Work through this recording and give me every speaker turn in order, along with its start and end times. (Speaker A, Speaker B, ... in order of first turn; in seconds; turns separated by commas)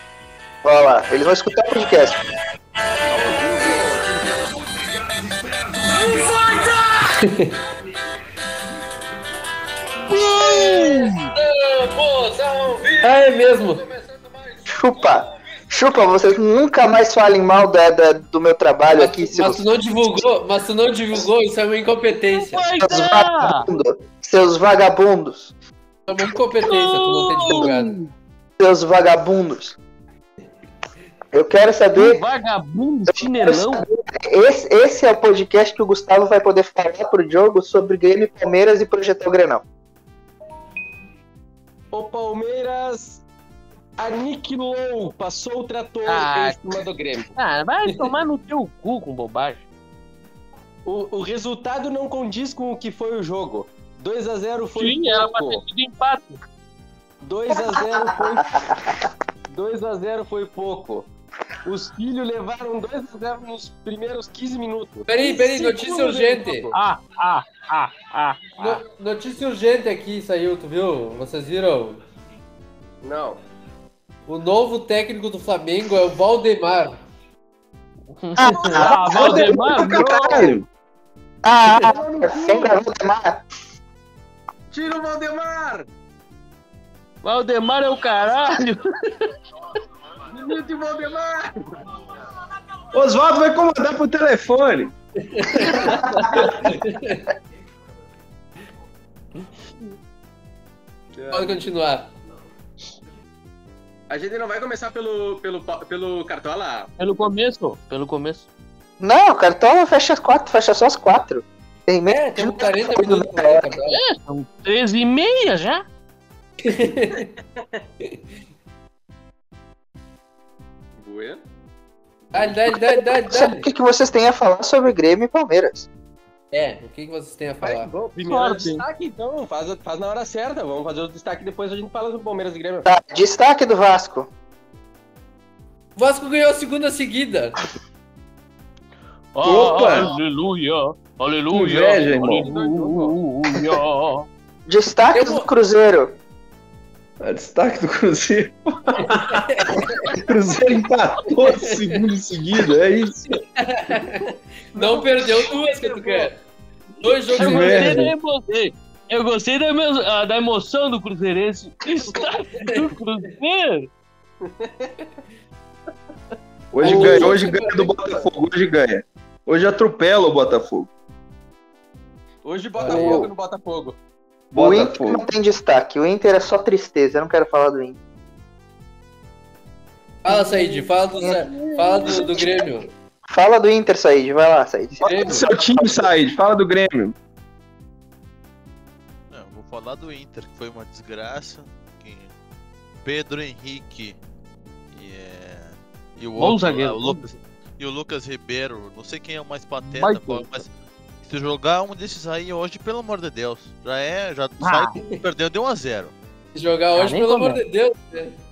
Speaker A: 0.6-2.2, Speaker B: 3.1-4.4, Speaker C: 7.2-7.5, Speaker D: 10.1-11.3, Speaker C: 10.4-10.8, Speaker C: 11.3-13.8, Speaker A: 14.7-20.2, Speaker C: 18.9-22.7, Speaker D: 22.3-23.7, Speaker A: 22.8-25.5, Speaker C: 26.1-27.9, Speaker D: 26.6-28.1, Speaker A: 28.6-29.8, Speaker A: 31.3-32.2, Speaker D: 31.9-33.8, Speaker A: 33.1-39.6, Speaker B: 41.9-43.2, Speaker B: 44.0-47.3, Speaker D: 46.0-46.7, Speaker D: 47.3-49.6, Speaker B: 47.9-48.1, Speaker B: 50.8-55.6, Speaker D: 54.8-56.4, Speaker B: 57.2-58.6, Speaker A: 57.5-59.0, Speaker B: 59.5-61.1, Speaker B: 61.6-66.7, Speaker C: 65.1-66.7, Speaker D: 66.7-68.8, Speaker C: 68.6-72.0, Speaker B: 73.0-73.4, Speaker C: 74.3-77.0, Speaker D: 78.2-80.5, Speaker A: 78.4-80.1, Speaker B: 78.4-80.6, Speaker E: 79.2-80.6, Speaker A: 81.4-83.4, Speaker B: 81.7-82.7, Speaker B: 84.7-85.9, Speaker D: 87.2-88.8, Speaker B: 90.3-91.8, Speaker E: 92.9-94.9, Speaker C: 95.3-97.2, Speaker B: 101.1-101.6, Speaker C: 101.3-102.1, Speaker B: 104.1-106.9, Speaker D: 107.0-108.5, Speaker A: 109.0-113.8, Speaker C: 112.0-114.0, Speaker D: 113.9-115.8, Speaker C: 116.6-117.3, Speaker B: 121.0-121.4, Speaker C: 122.3-123.7, Speaker A: 122.7-125.9, Speaker C: 126.5-127.9, Speaker B: 127.6-132.9, Speaker D: 128.2-128.8, Speaker A: 132.8-134.3, Speaker C: 136.0-137.6, Speaker D: 139.3-144.3, Speaker E: 139.4-140.1, Speaker E: 141.5-142.5, Speaker B: 142.4-143.2, Speaker A: 144.7-146.1, Speaker C: 145.1-145.5, Speaker E: 147.2-153.2, Speaker C: 149.0-150.0, Speaker C: 151.4-151.7, Speaker C: 153.3-156.4, Speaker B: 154.7-155.1, Speaker B: 155.6-156.3, Speaker C: 157.0-157.9, Speaker D: 157.3-163.9, Speaker E: 157.3-158.1, Speaker B: 164.4-165.0, Speaker E: 166.7-170.9, Speaker C: 166.8-168.2, Speaker D: 166.9-167.2, Speaker B: 172.4-174.0, Speaker C: 172.8-173.2, Speaker E: 172.9-173.3, Speaker E: 174.5-175.2, Speaker A: 174.5-178.0, Speaker C: 180.2-182.9, Speaker D: 180.3-182.3, Speaker A: 182.0-182.7, Speaker A: 183.3-186.1, Speaker C: 185.0-185.5, Speaker E: 185.0-187.1, Speaker F: 189.3-192.3, Speaker F: 193.0-194.2, Speaker F: 194.9-200.7, Speaker D: 196.4-197.2, Speaker D: 199.8-200.5, Speaker F: 201.2-206.1, Speaker D: 204.6-204.9, Speaker C: 206.5-208.3, Speaker D: 206.9-207.6